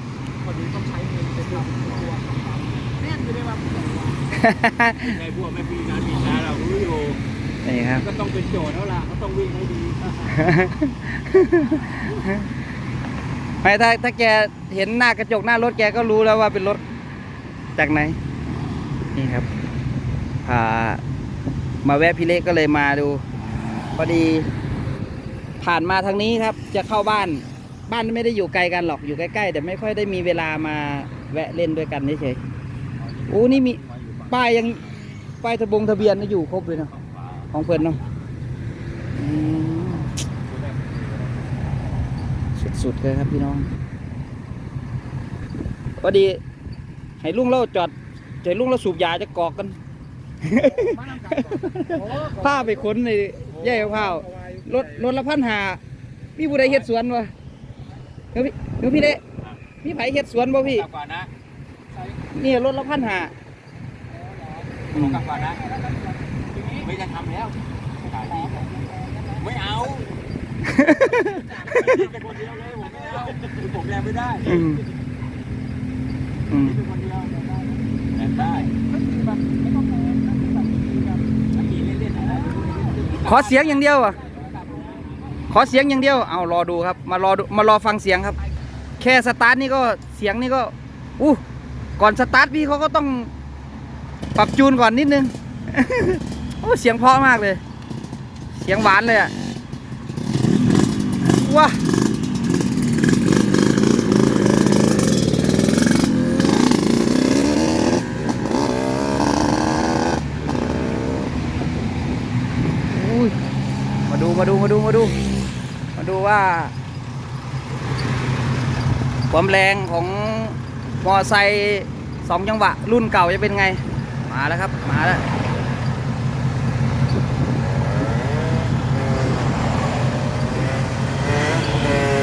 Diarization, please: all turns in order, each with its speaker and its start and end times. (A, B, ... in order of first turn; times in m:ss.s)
0:00.4-0:04.3 A
0:01.5-0:02.1 B
0:04.3-0:05.2 C
0:05.0-0:07.2 B
0:07.6-0:08.0 C
0:08.0-0:10.2 B
0:10.3-0:12.5 C
0:13.6-0:16.8 C
0:17.8-0:18.2 C
0:19.1-0:19.5 C
0:20.4-0:21.0 C
0:21.8-0:23.2 C
0:24.0-0:24.5 C
0:25.6-0:32.4 C
0:33.0-0:35.2 B
0:33.3-0:34.8 C
0:35.4-0:36.9 C
0:35.7-0:38.1 B
0:37.5-0:38.0 C
0:39.1-0:40.1 C
0:40.4-0:41.6 B
0:42.6-0:43.7 C
0:46.0-0:46.4 C
0:47.2-0:49.8 C
0:50.4-0:55.8 C
0:50.6-0:52.8 A
0:53.5-0:55.1 A
0:56.4-0:57.3 C
0:56.5-0:56.9 B
0:58.3-0:59.2 C
0:59.8-1:00.9 C
1:00.6-1:01.3 B
1:02.3-1:03.3 C
1:04.1-1:06.9 A
1:04.9-1:05.6 B
1:04.9-1:05.2 C
1:06.7-1:08.7 B
1:08.1-1:09.4 A
1:09.3-1:10.2 B
1:10.6-1:11.9 C
1:10.9-1:11.9 A
1:11.5-1:14.8 B
1:12.5-1:13.4 A
1:14.4-1:14.8 C
1:16.5-1:16.8 C
1:16.6-1:17.5 B
1:18.1-1:18.7 B
1:18.5-1:21.3 A
1:21.5-1:25.1 B
1:22.4-1:23.0 A
1:23.2-1:24.2 C
1:24.0-1:25.1 A
1:25.5-1:28.4 C
1:29.0-1:31.4 C
1:32.0-1:33.3 C
1:34.4-1:37.6 C
1:38.6-1:39.3 C
1:41.2-1:41.8 C
1:52.8-1:53.4 C
1:54.1-1:55.1 C
1:56.0-1:56.7 C
1:59.3-2:05.2 C